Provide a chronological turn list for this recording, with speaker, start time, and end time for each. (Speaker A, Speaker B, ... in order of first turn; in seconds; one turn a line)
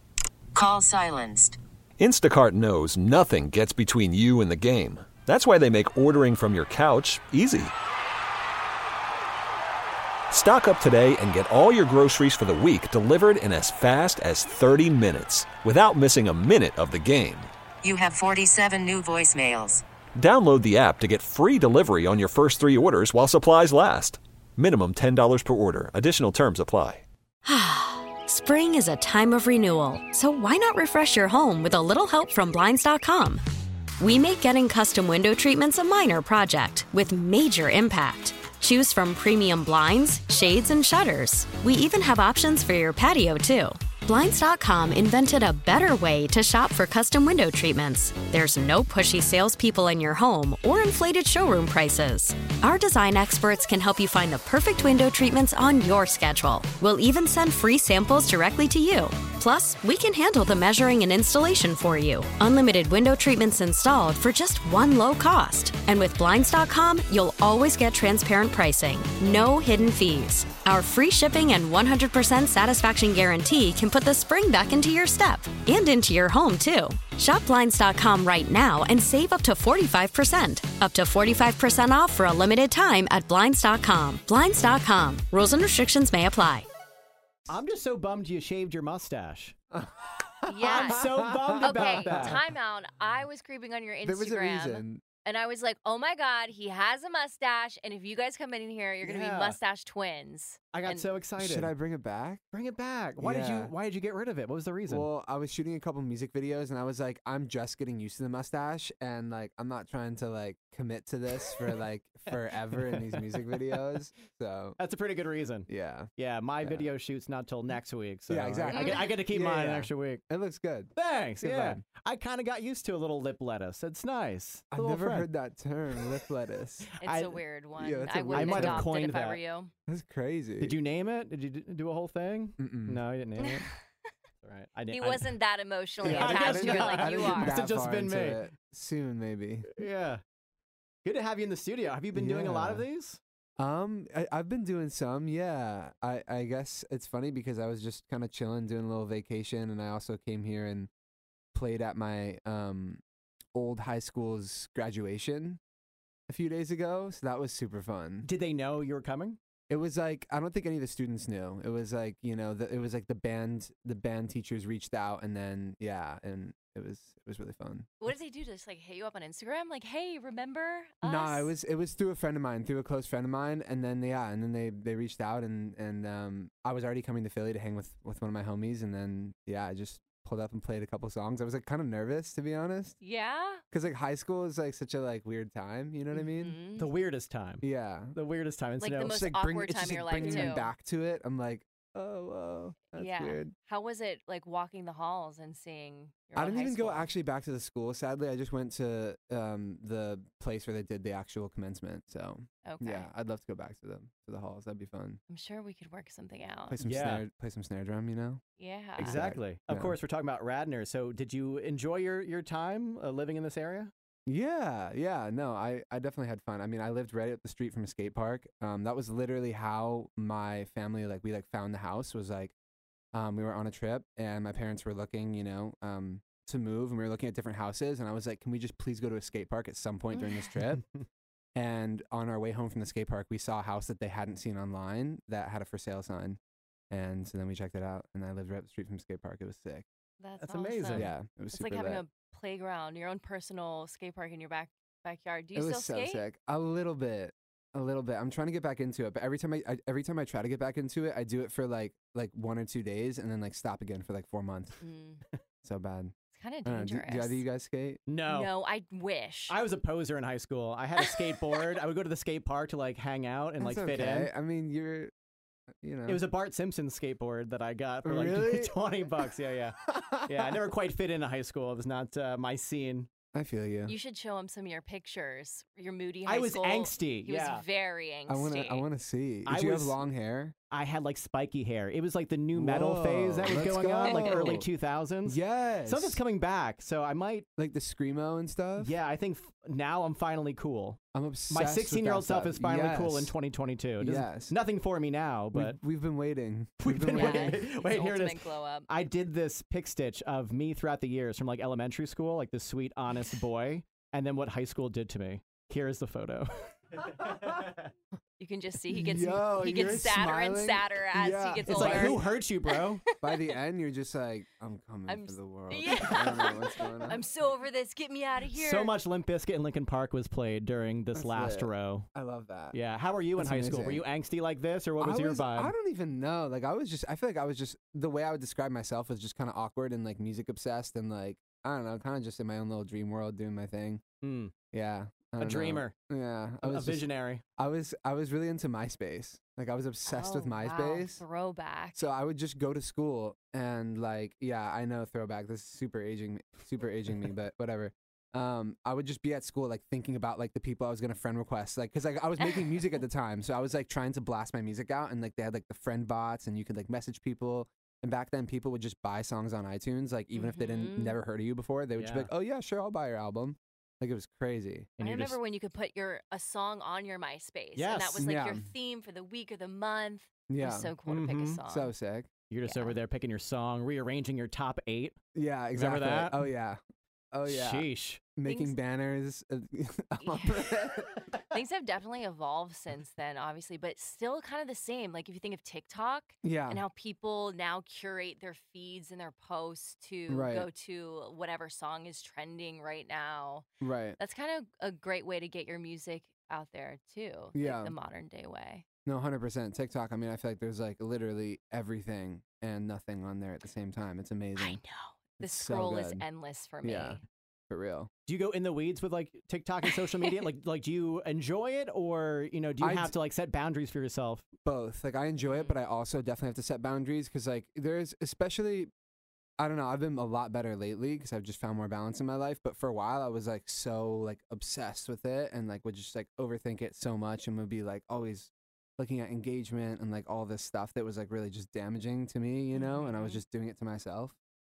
Speaker A: 0.5-1.6
Speaker B: 2.0-7.7
Speaker B: 10.3-17.5
Speaker A: 17.8-19.8
Speaker B: 20.2-27.0
Speaker C: 27.4-33.4
Speaker C: 34.0-86.7
Speaker D: 87.5-89.5
Speaker E: 89.7-92.3
Speaker F: 90.4-101.1
Speaker D: 90.6-92.4
Speaker E: 94.0-95.0
Speaker D: 99.0-99.6
Speaker D: 100.7-101.7
Speaker E: 101.4-102.4
Speaker D: 102.5-105.1
Speaker E: 103.2-103.7
Speaker E: 104.8-114.8
Speaker D: 112.3-113.7
Speaker D: 114.8-120.2
Speaker E: 115.7-116.9
Speaker E: 118.3-121.8
Speaker D: 120.9-125.3
Speaker E: 124.7-126.9
Speaker D: 126.9-127.4
Speaker F: 127.0-129.7
Speaker E: 127.8-128.9
Speaker D: 128.3-129.4
Speaker E: 129.9-130.8
Speaker D: 130.6-133.7
Speaker E: 132.6-133.0
Speaker F: 133.4-133.7
Speaker D: 134.4-135.3
Speaker F: 134.9-137.6
Speaker E: 136.0-139.7
Speaker D: 136.0-138.4
Speaker D: 139.7-140.2
Speaker D: 141.0-143.2
Speaker E: 142.1-142.9
Speaker E: 143.6-150.9
Speaker E: 151.5-153.0
Speaker E: 153.5-155.6
Speaker E: 156.3-158.3
Speaker D: 158.2-159.4
Speaker E: 159.7-167.9
Speaker F: 168.0-171.5
Speaker E: 171.0-183.0
Speaker F: 183.0-183.6
Speaker E: 183.7-186.6
Speaker F: 186.1-186.9
Speaker D: 186.8-189.2
Speaker E: 187.6-188.2
Speaker F: 188.8-190.7
Speaker E: 189.1-193.5
Speaker D: 190.2-190.6
Speaker F: 192.9-197.1
Speaker E: 196.3-205.2
Speaker F: 202.7-203.1
Speaker F: 205.3-206.8
Speaker E: 206.7-208.4
Speaker D: 206.8-207.2
Speaker F: 208.6-209.2
Speaker E: 209.0-210.0
Speaker D: 209.0-213.9
Speaker E: 214.2-222.5
Speaker E: 223.1-230.8
Speaker F: 230.1-230.5
Speaker E: 231.6-236.4
Speaker E: 236.9-239.8
Speaker F: 240.2-246.2
Speaker D: 240.4-241.1
Speaker E: 240.9-242.0
Speaker E: 245.5-254.8
Speaker F: 254.8-255.2
Speaker E: 255.6-256.1
Speaker F: 256.3-257.4
Speaker E: 256.6-258.0
Speaker D: 258.1-258.5
Speaker F: 258.2-259.6
Speaker D: 259.5-264.3
Speaker E: 263.6-265.1
Speaker E: 265.8-266.2
Speaker D: 266.1-273.1
Speaker E: 268.0-268.7
Speaker E: 269.9-270.6
Speaker E: 273.3-273.9
Speaker F: 273.9-278.9
Speaker D: 276.2-277.6
Speaker E: 278.3-280.5
Speaker D: 279.4-280.0
Speaker D: 280.7-287.4
Speaker E: 282.5-284.7
Speaker F: 284.0-284.6
Speaker E: 285.2-286.2
Speaker E: 287.6-288.9
Speaker D: 288.8-291.0
Speaker E: 291.1-293.3
Speaker D: 291.5-295.8
Speaker E: 294.0-294.6
Speaker E: 295.5-297.6
Speaker D: 296.8-307.9
Speaker F: 297.1-298.9
Speaker F: 308.4-313.4
Speaker E: 308.9-312.2
Speaker D: 311.6-313.0
Speaker E: 313.2-317.2
Speaker F: 315.1-318.9
Speaker D: 318.5-322.1
Speaker E: 321.1-322.8
Speaker D: 322.7-325.7
Speaker E: 323.3-324.1
Speaker E: 325.0-334.0
Speaker D: 334.2-334.5
Speaker E: 334.7-337.1
Speaker D: 335.4-335.9
Speaker D: 336.6-337.4
Speaker E: 337.6-341.2
Speaker F: 340.1-342.1
Speaker E: 341.9-364.9
Speaker F: 360.3-361.2
Speaker D: 361.9-362.3
Speaker D: 365.0-365.4
Speaker F: 365.0-371.9
Speaker D: 367.7-368.3
Speaker E: 368.2-368.7
Speaker E: 370.5-370.9
Speaker D: 371.1-371.6
Speaker E: 371.7-372.3
Speaker D: 372.5-375.2
Speaker F: 372.6-373.0
Speaker E: 375.3-376.8
Speaker D: 375.7-376.5
Speaker E: 377.3-381.1
Speaker D: 377.4-378.2
Speaker F: 378.4-378.8
Speaker F: 380.2-380.8
Speaker F: 381.5-398.8
Speaker E: 386.4-386.8
Speaker E: 390.3-390.7
Speaker E: 393.8-394.2
Speaker E: 397.5-397.9
Speaker E: 399.0-404.8
Speaker F: 404.6-407.2
Speaker E: 405.4-406.2
Speaker E: 406.8-408.1
Speaker D: 408.2-414.4
Speaker F: 409.9-410.3
Speaker E: 412.8-413.1
Speaker E: 414.6-418.9
Speaker F: 415.4-415.7
Speaker E: 419.6-434.4
Speaker F: 432.7-433.4